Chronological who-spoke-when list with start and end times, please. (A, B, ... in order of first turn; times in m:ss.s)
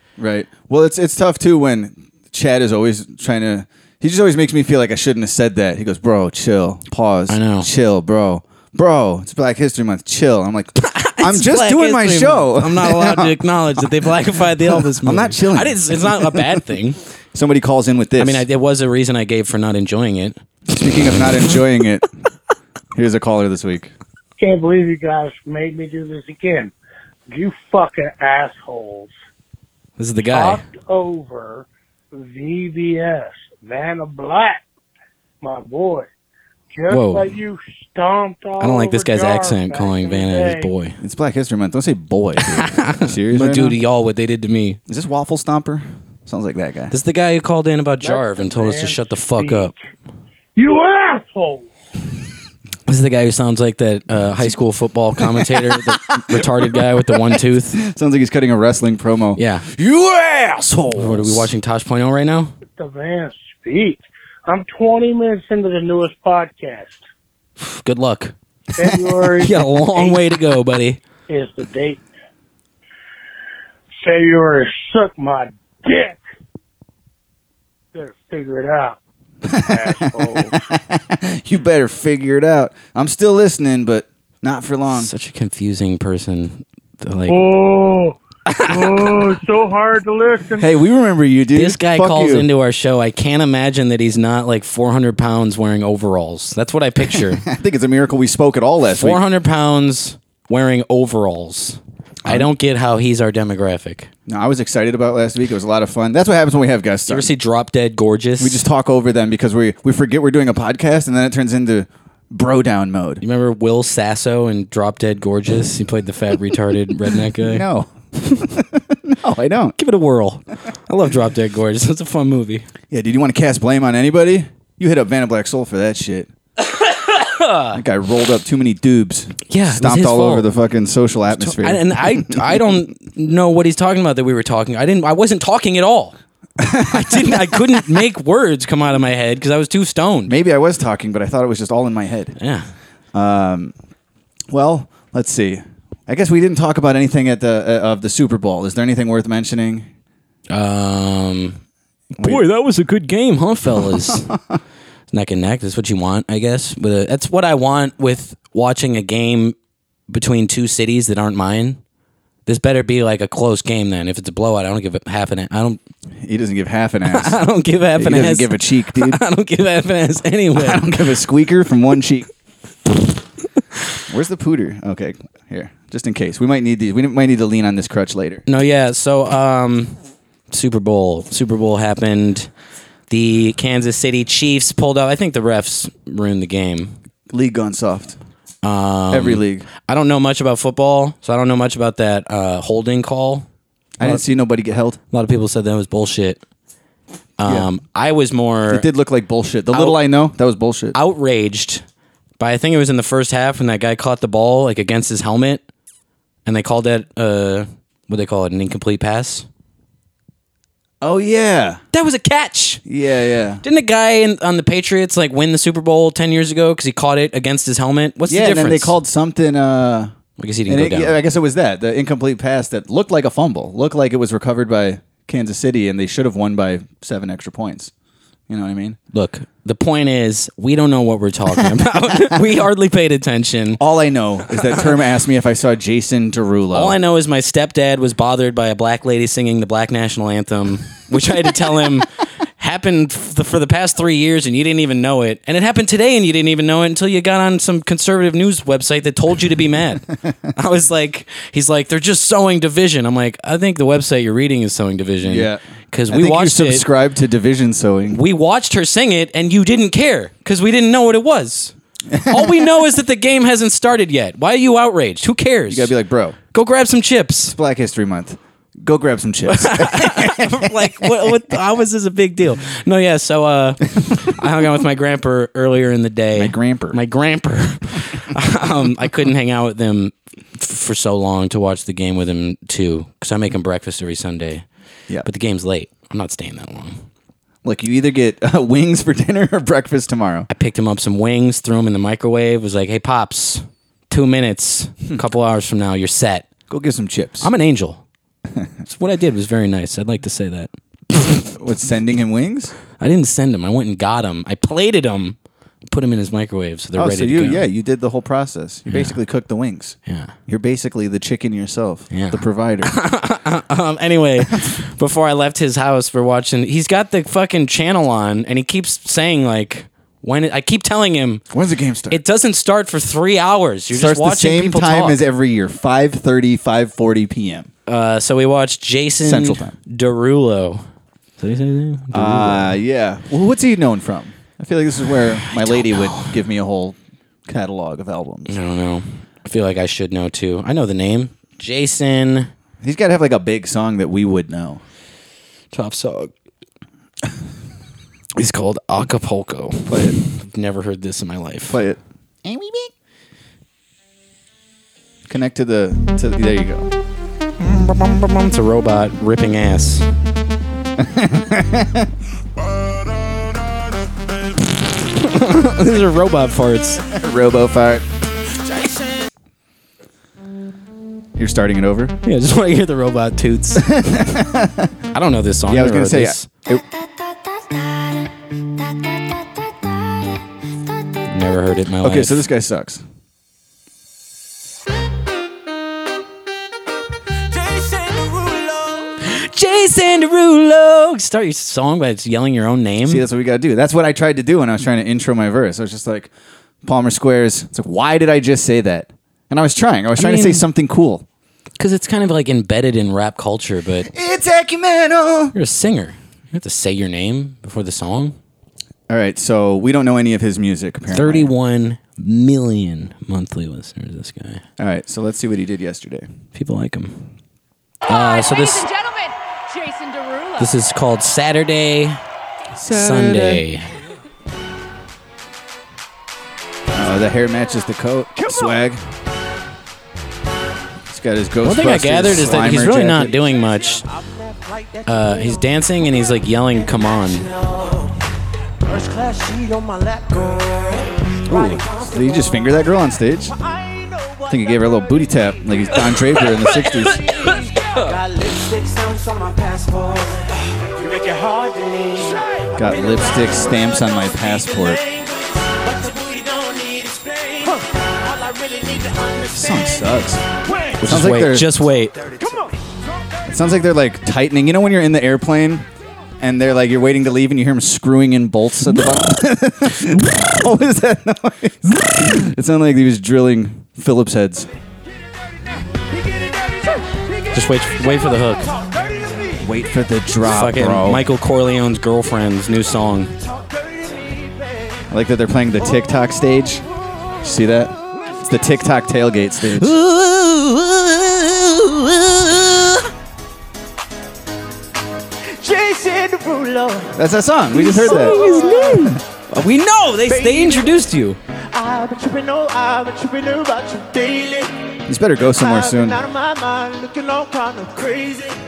0:00.2-0:16.7 A
0:07.3-0:07.7 B
0:10.8-0:17.0 B
0:17.3-0:18.4 A
0:18.2-0:20.4 B
0:20.7-0:22.1 A
0:21.1-0:21.6 B
0:23.0-0:23.9 A
0:24.4-0:26.7 C
0:27.3-0:29.1 C
0:30.0-0:30.6 B
0:30.3-0:34.6 C
0:35.4-0:36.1 C
0:36.7-0:40.7 C
0:36.9-0:37.3 B
0:38.6-0:41.0 B
0:41.0-0:43.8 A
0:42.5-0:44.8 B
0:44.9-0:47.0 A
0:46.9-0:49.7 B
0:48.0-0:49.7 C
0:50.6-0:51.7 C
0:52.9-0:57.8 B
0:54.2-0:54.6 A
0:55.2-1:01.5 A
0:59.4-0:59.7 B
1:01.0-1:02.5 B
1:02.8-1:07.0 C
1:07.6-1:08.3 B
1:08.8-1:10.2 C
1:09.4-1:11.0 B
1:11.3-1:12.0 C
1:14.0-1:16.2 C
1:17.9-1:19.0 C
1:19.4-1:25.1 A
1:19.5-1:20.6 C
1:24.9-1:27.4 B
1:27.3-1:30.7 C
1:28.5-1:29.3 B
1:30.6-1:32.5 A
1:31.5-1:37.4 B
1:37.1-1:39.2 A
1:39.0-1:44.1 B
1:42.2-1:42.5 A
1:44.3-1:47.3 A
1:47.1-1:48.6 B
1:48.4-1:53.2 A
1:53.2-1:57.6 B
1:57.4-1:59.8 A
1:59.8-2:02.7 B
2:02.9-2:06.3 A
2:06.8-2:07.8 B
2:07.7-2:12.6 A
2:09.5-2:10.5 B
2:11.3-2:16.2 B
2:16.6-2:18.0 A
2:16.9-2:20.3 B
2:20.3-2:22.4 A
2:22.4-2:22.7 B
2:23.1-2:23.7 A
2:24.5-2:29.9 A
2:30.5-2:31.6 B
2:32.2-2:32.4 A
2:32.2-2:34.3 B
2:33.9-2:34.2 A
2:35.1-2:39.6 B
2:40.1-2:41.8 B
2:42.5-2:45.8 B
2:46.2-2:47.4 A
2:47.1-2:50.9 B
2:48.0-2:49.2 A
2:50.5-2:52.3 A
2:54.1-2:58.4 A
2:58.5-3:00.0 B
3:00.5-3:02.5 B
3:03.1-3:07.0 B
3:07.3-3:08.2 A
3:08.6-3:13.5 B
3:09.1-3:09.7 A
3:14.0-3:15.0 A
3:15.1-3:16.4 B
3:17.4-3:18.9 B
3:18.7-3:21.0 A
3:19.7-3:20.0 B
3:21.0-3:21.8 B
3:22.4-3:25.6 B
3:26.5-3:29.5 B
3:31.0-3:31.8 A
3:31.9-3:32.8 B
3:32.9-3:33.6 A
3:33.6-3:39.0 B
3:38.3-3:40.2 A
3:40.4-3:41.2 B
3:40.7-3:47.9 A
3:48.5-3:49.0 A
3:49.1-3:53.8 B
3:51.6-3:52.5 A
3:53.8-3:57.0 A
3:54.5-3:54.9 B
3:56.7-4:02.1 B
4:02.6-4:16.9 B
4:15.2-4:18.2 A
4:18.1-4:21.7 B
4:22.1-4:22.8 A
4:22.3-4:25.9 B
4:25.7-4:26.4 A
4:26.5-4:27.6 B
4:27.5-4:31.3 A
4:29.5-4:44.6 B
4:36.4-4:37.0 A
4:45.2-4:47.0 B
4:47.6-4:50.5 A
4:50.5-4:56.5 B
4:56.7-4:57.5 A
4:57.4-4:58.0 B
4:58.9-5:01.4 B
5:01.5-5:02.7 A
5:03.0-5:05.4 B
5:05.9-5:07.6 B
5:07.0-5:10.0 A
5:08.9-5:09.2 B
5:10.1-5:10.3 B
5:10.5-5:12.9 A
5:12.1-5:21.4 B
5:21.5-5:22.2 A
5:22.1-5:25.2 B
5:23.9-5:27.7 A
5:27.9-5:30.8 B
5:29.2-5:29.8 A
5:31.4-5:32.8 B
5:32.1-5:38.5 A
5:35.4-5:36.4 B
5:38.5-5:42.5 B
5:42.8-5:44.8 A
5:45.7-5:46.3 B
5:48.4-5:51.8 B
5:49.9-5:50.2 A
5:51.7-5:52.9 A
5:55.3-5:56.9 A
5:57.6-6:00.1 B
6:01.0-6:02.1 A
6:05.0-6:07.0 B
6:07.1-6:08.0 A
6:11.4-6:12.1 A
6:12.2-6:14.1 B
6:13.8-6:14.9 A
6:15.1-6:16.5 B
6:15.7-6:16.8 A
6:21.3-6:22.4 B
6:22.0-6:23.0 A
6:27.5-6:29.2 D
6:29.2-6:33.2 B
6:33.0-6:36.3 A
6:36.8-6:41.3 A
6:40.2-6:40.6 B
6:41.8-6:44.1 B
6:44.1-6:45.6 A
6:45.5-6:48.4 B
6:49.1-6:51.5 A
6:51.1-6:54.6 B
6:54.8-6:56.3 A
6:56.6-6:57.3 B
6:58.1-7:00.7 E
6:58.1-6:58.9 B
7:00.6-7:02.2 B
7:02.8-7:03.6 A
7:02.9-7:03.9 B
7:06.9-7:09.0 A
7:11.1-7:13.4 A
7:11.6-7:14.0 B
7:13.3-7:18.2 D
7:15.1-7:17.5 B
7:18.8-7:22.6 D
7:21.5-7:23.5 A
7:23.5-7:41.0 D
7:24.5-7:27.2 A
7:32.8-7:35.0 A
7:39.5-7:40.4 A
7:41.0-7:42.2 B
7:41.0-7:41.7 A
7:42.2-7:42.8 D
7:43.5-7:45.9 A
7:46.4-7:54.7 A
7:50.2-7:50.5 B
7:56.2-7:59.6 D
7:57.5-7:58.7 B
7:59.6-8:01.2 A
8:00.4-8:03.3 B
8:03.4-8:05.0 D
8:05.1-8:06.8 A
8:07.4-8:10.0 A
8:09.7-8:13.1 B
8:15.6-8:17.2 D
8:17.2-8:18.4 A
8:17.8-8:19.2 D
8:17.8-8:21.4 B
8:20.3-8:21.0 D
8:21.7-8:24.8 D
8:25.1-8:26.2 A
8:25.5-8:28.6 D